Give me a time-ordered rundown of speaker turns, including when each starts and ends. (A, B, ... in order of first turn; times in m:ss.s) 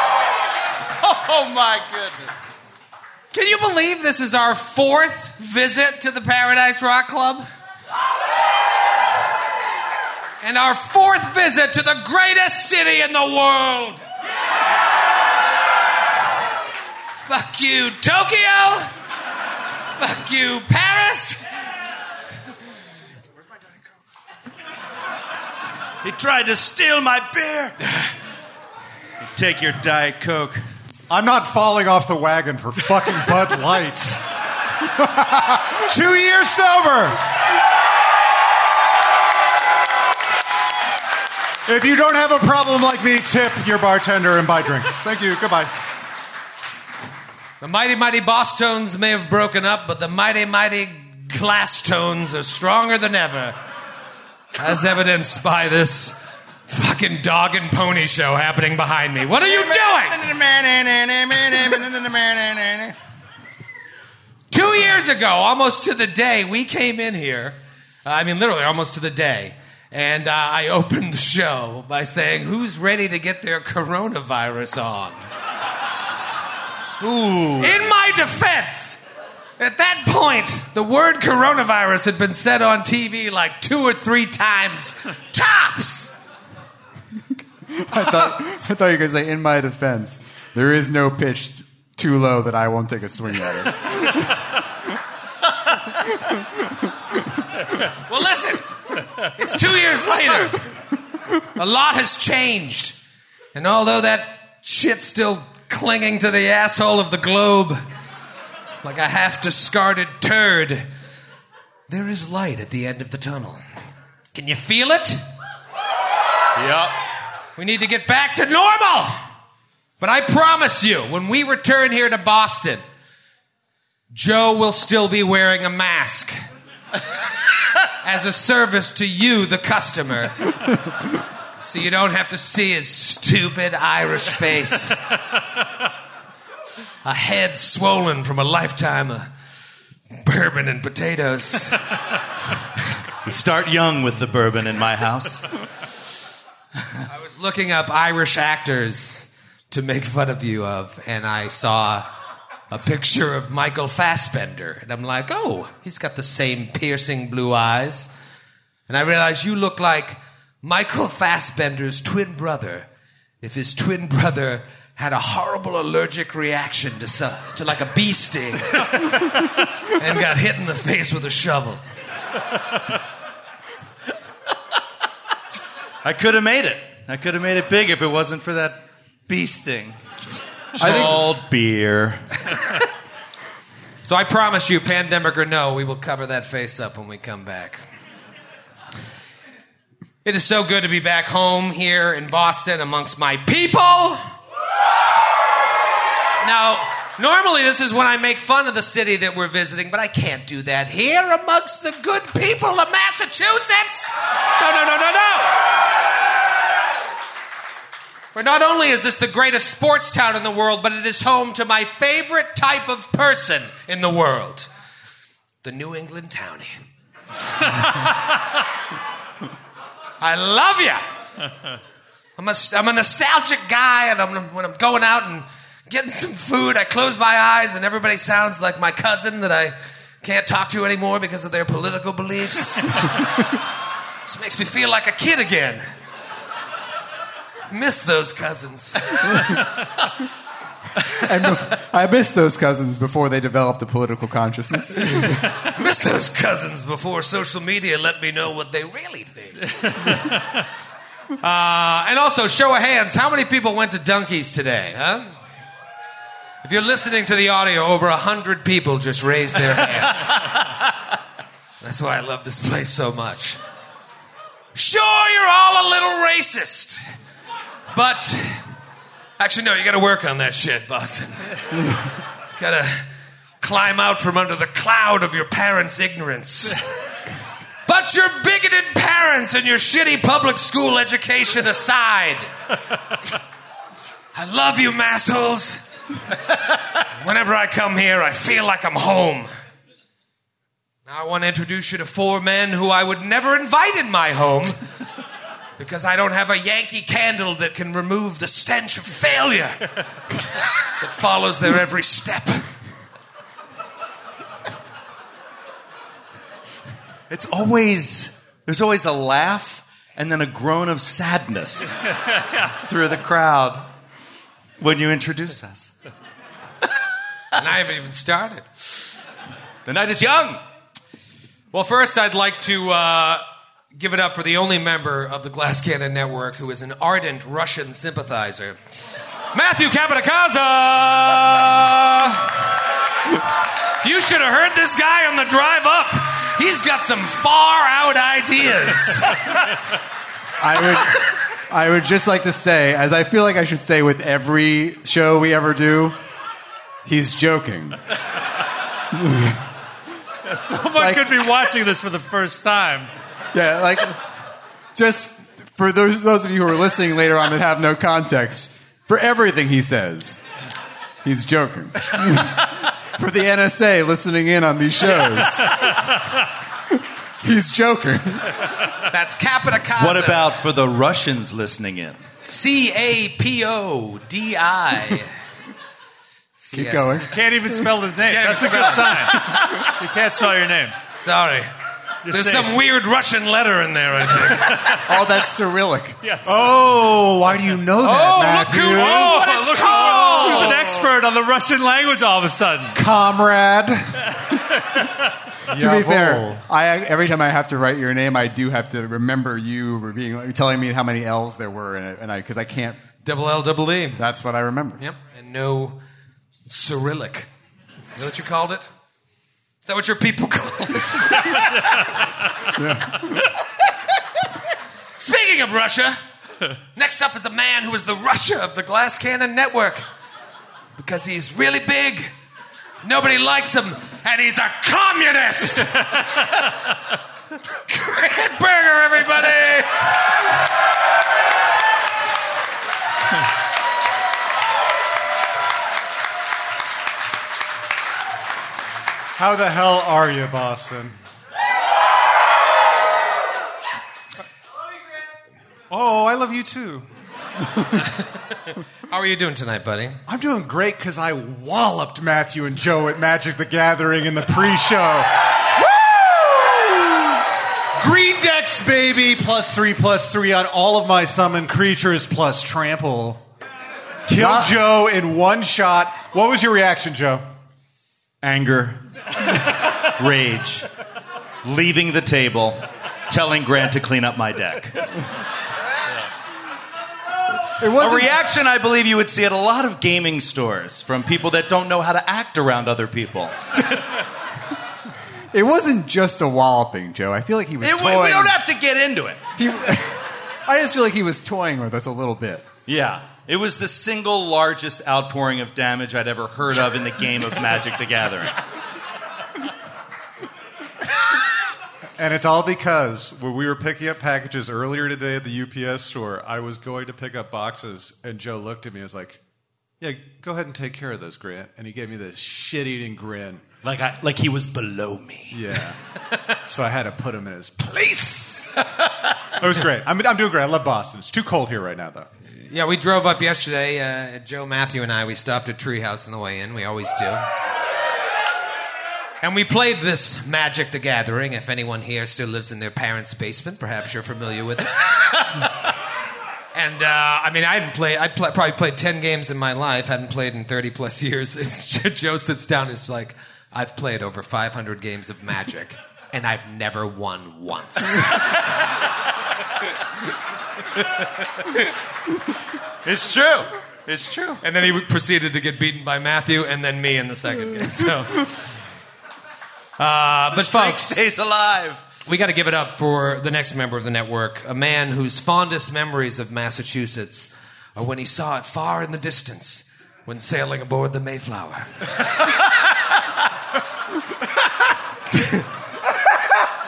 0:01.0-0:02.3 A
0:03.3-0:07.5 B
0:10.4-0:14.0 B
0:17.2-0:18.9 B
0:20.0-0:21.4 B
0:26.0-0:28.1 A
0:29.2-0:30.7 A
0:31.1-0:34.2 C
0:34.9-0:37.2 C
0:41.7-0:45.8 C
0:47.6-0:53.6 B
0:54.6-1:00.2 B
0:59.4-1:02.9 A
1:04.5-1:15.2 B
1:17.0-1:17.8 A
1:17.6-1:19.0 B
1:19.6-1:26.1 B
1:27.7-1:34.5 D
1:38.0-1:40.7 B
1:41.4-1:43.0 B
1:43.5-1:47.8 B
1:48.8-1:50.9 B
1:51.9-1:53.6 B
1:54.3-1:55.2 B
1:56.6-1:57.0 A
1:57.6-1:59.2 B
2:00.0-2:02.8 B
2:04.1-2:06.4 B
2:08.0-2:10.6 B
2:11.6-2:15.0 B
2:17.0-2:19.3 B
2:20.2-2:21.8 B
2:23.2-2:25.5 A
2:27.1-2:32.1 B
2:32.7-2:38.1 B
2:38.9-2:42.9 B
2:43.4-2:51.8 B
2:56.0-3:00.0 A
3:00.7-3:02.8 A
3:00.8-3:01.4 C
3:04.0-3:07.8 B
3:10.2-3:14.3 B
3:16.4-3:25.6 B
3:28.3-3:34.7 B
3:35.6-3:36.8 B
3:40.2-3:41.0 B
3:42.4-3:53.2 B
3:54.3-3:55.9 B
3:57.7-3:59.6 B
4:01.1-4:05.4 D
4:05.1-4:10.2 B
4:11.4-4:15.3 B
4:16.6-4:20.6 B
4:21.8-4:23.6 B
4:24.7-4:27.0 B
4:27.9-4:28.7 B
4:29.4-4:33.1 B
4:33.6-4:36.8 B
4:37.9-4:42.5 B
4:44.3-4:49.5 B
4:51.0-4:54.8 B
4:55.8-4:59.9 B
5:00.8-5:02.7 B
5:07.3-5:13.8 A
5:14.8-5:15.9 A
5:17.6-5:18.7 B
5:19.9-5:20.6 A
5:21.7-5:28.8 B
5:29.5-5:32.6 B
5:34.0-5:39.5 B
5:40.6-5:46.2 D
5:47.0-5:48.0 D
5:49.1-5:49.6 D
5:50.4-5:53.1 E
5:51.0-5:51.4 D
5:53.5-5:54.3 D
5:54.9-6:00.4 D
6:01.2-6:06.1 D
6:06.9-6:08.7 D
6:09.1-6:10.5 B
6:10.0-6:12.2 A
6:12.4-6:15.3 B
6:16.6-6:17.3 B
6:16.7-6:17.4 D
6:17.3-6:21.0 E
6:18.2-6:19.6 B
6:21.2-6:21.7 B
6:22.2-6:22.8 E
6:22.3-6:25.0 B
6:24.7-6:25.0 E
6:24.8-6:26.8 D
6:26.2-6:26.7 E
6:26.4-6:31.0 C
6:28.0-6:30.9 B
6:28.5-6:33.0 E
6:32.9-6:34.4 C
6:35.7-6:36.6 C
6:35.7-6:43.0 D
6:43.2-6:44.2 B
6:44.2-6:45.0 D
6:45.0-6:46.0 B
6:46.7-6:47.5 B
6:48.1-6:48.9 B
6:49.8-6:52.1 B
6:52.7-6:53.3 D
6:55.2-6:56.2 B
6:56.9-7:00.1 B
7:01.0-7:02.3 B
7:03.0-7:06.4 B
7:07.8-7:10.1 B
7:19.4-7:21.2 C
7:25.9-7:27.1 C
7:29.1-7:30.2 B
7:30.3-7:36.4 C
7:36.5-7:37.0 A
7:38.0-7:43.4 C
7:44.3-7:47.5 C
7:44.4-7:44.8 D
7:48.4-7:50.9 A
7:51.6-7:55.1 A
7:57.9-7:58.4 C
7:57.9-8:03.9 A
8:05.5-8:08.6 D
8:07.8-8:09.5 A
8:09.6-8:12.7 D
8:12.9-8:18.6 A
8:22.2-8:29.4 C
8:30.0-8:33.7 C
8:33.8-8:35.8 A
8:35.5-8:38.8 C
8:39.6-8:42.3 C
8:42.7-8:47.5 B
8:49.4-8:55.7 B
8:56.7-9:08.5 B
9:13.0-9:14.6 A
9:14.6-9:18.6 B
9:20.0-9:21.2 B
9:20.5-9:22.0 A
9:22.2-9:32.6 B
9:35.3-9:35.6 B